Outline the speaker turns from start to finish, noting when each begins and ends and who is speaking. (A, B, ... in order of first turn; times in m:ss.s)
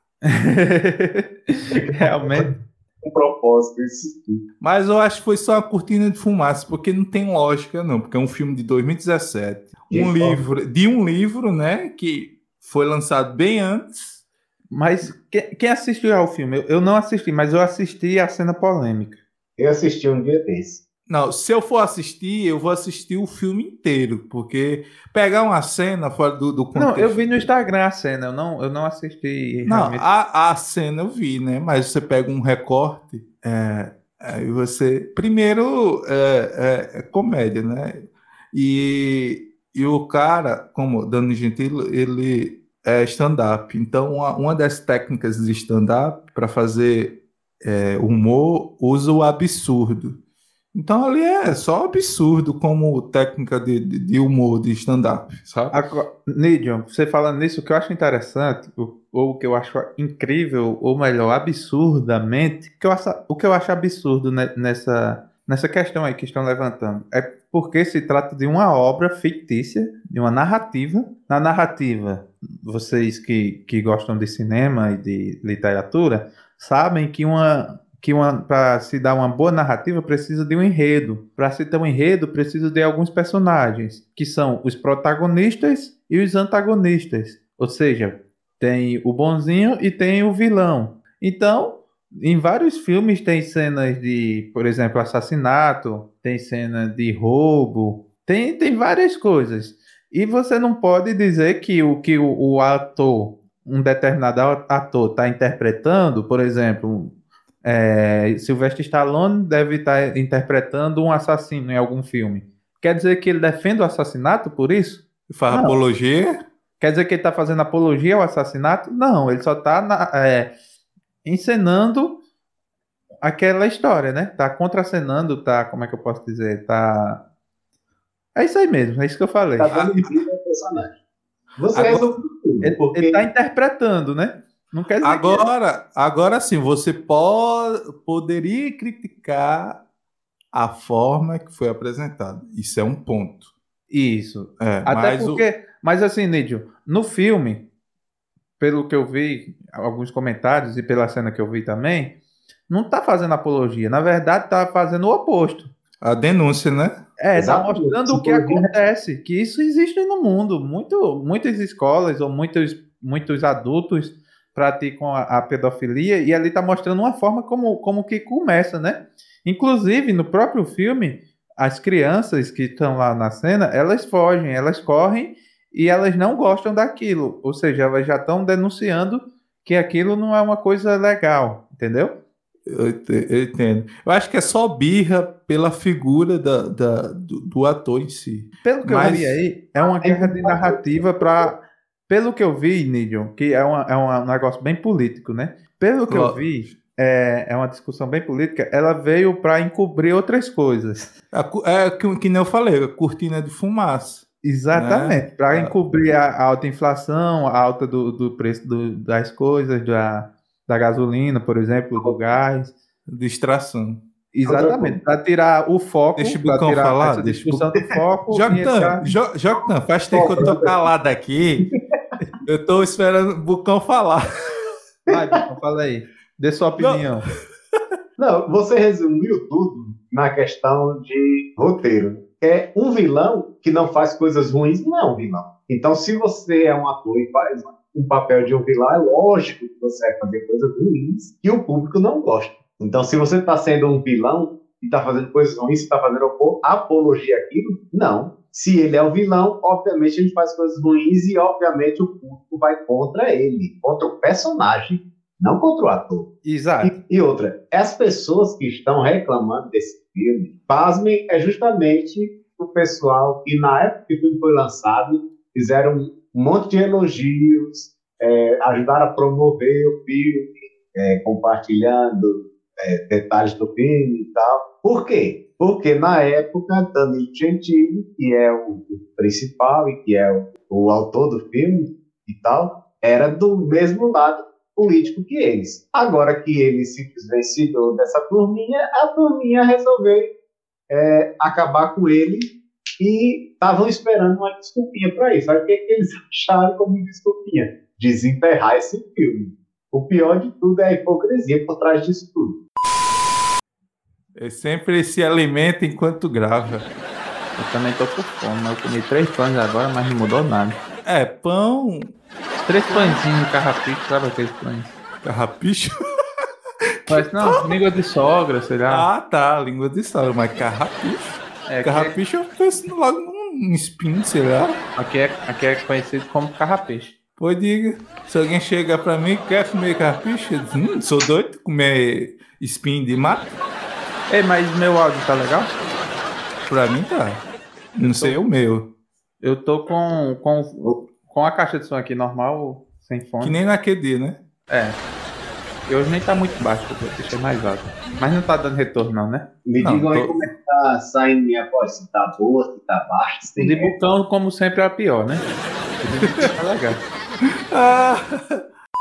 0:00.3-0:02.5 A
0:01.7-0:02.5 B
0:03.1-0:04.4 B
0:04.6-0:14.2 C
0:09.9-0:10.4 B
0:14.7-0:19.2 A
0:19.6-0:20.8 B
0:21.1-0:27.4 C
0:26.7-0:30.0 A
0:29.6-0:38.0 C
0:38.5-0:50.2 C
0:50.7-0:55.8 C
0:55.7-1:47.1 A
1:47.6-1:55.8 A
1:55.3-1:56.3 C
1:56.8-2:00.5 A
2:01.2-2:02.1 A
2:03.2-2:07.2 A
2:08.4-2:09.7 A
2:09.6-2:10.9 B
2:09.7-2:10.1 C
2:11.6-2:13.2 B
2:11.7-2:12.1 C
2:12.6-2:15.4 A
2:15.0-2:19.8 C
2:20.5-2:23.5 C
2:23.9-2:27.6 A
2:24.6-2:25.4 C
2:28.6-2:32.1 A
2:32.7-2:35.7 A
2:36.0-2:36.9 C
2:37.2-3:02.1 A
2:37.4-2:38.6 B
3:02.7-3:09.4 C
3:08.6-3:21.1 A
3:09.8-3:11.5 B
3:16.1-3:16.5 C
3:21.3-3:25.7 C
3:24.4-3:32.7 A
3:33.1-3:34.0 C
3:34.3-3:39.1 A
3:34.5-3:35.0 B
3:36.2-3:37.7 C
3:38.3-3:41.6 C
3:40.1-3:40.8 B
3:42.4-3:44.2 C
3:45.1-3:47.2 A
3:46.8-3:47.2 C
3:48.2-4:16.3 B
4:16.4-4:16.9 A
4:16.8-4:50.2 B
4:50.9-5:02.6 B
5:04.4-5:06.8 C
5:07.6-5:10.8 A
5:11.0-5:12.1 C
5:12.6-5:14.9 A
5:12.9-5:13.2 C
5:15.2-5:15.9 C
5:17.0-5:17.7 C
5:17.1-5:19.0 A
5:18.9-5:24.8 C
5:21.7-5:22.1 A
5:25.0-5:27.1 A
5:27.4-5:33.5 C
5:34.3-5:35.7 A
5:36.6-5:37.4 C
5:37.9-5:38.8 C
5:38.0-5:38.4 A
5:39.4-5:43.6 A
5:43.4-5:44.4 C
5:44.7-5:45.0 A
5:45.9-5:49.4 A
5:49.6-5:53.9 B
5:49.8-5:50.5 C
5:53.6-5:55.4 A
5:56.0-5:57.0 A
5:57.7-5:58.6 C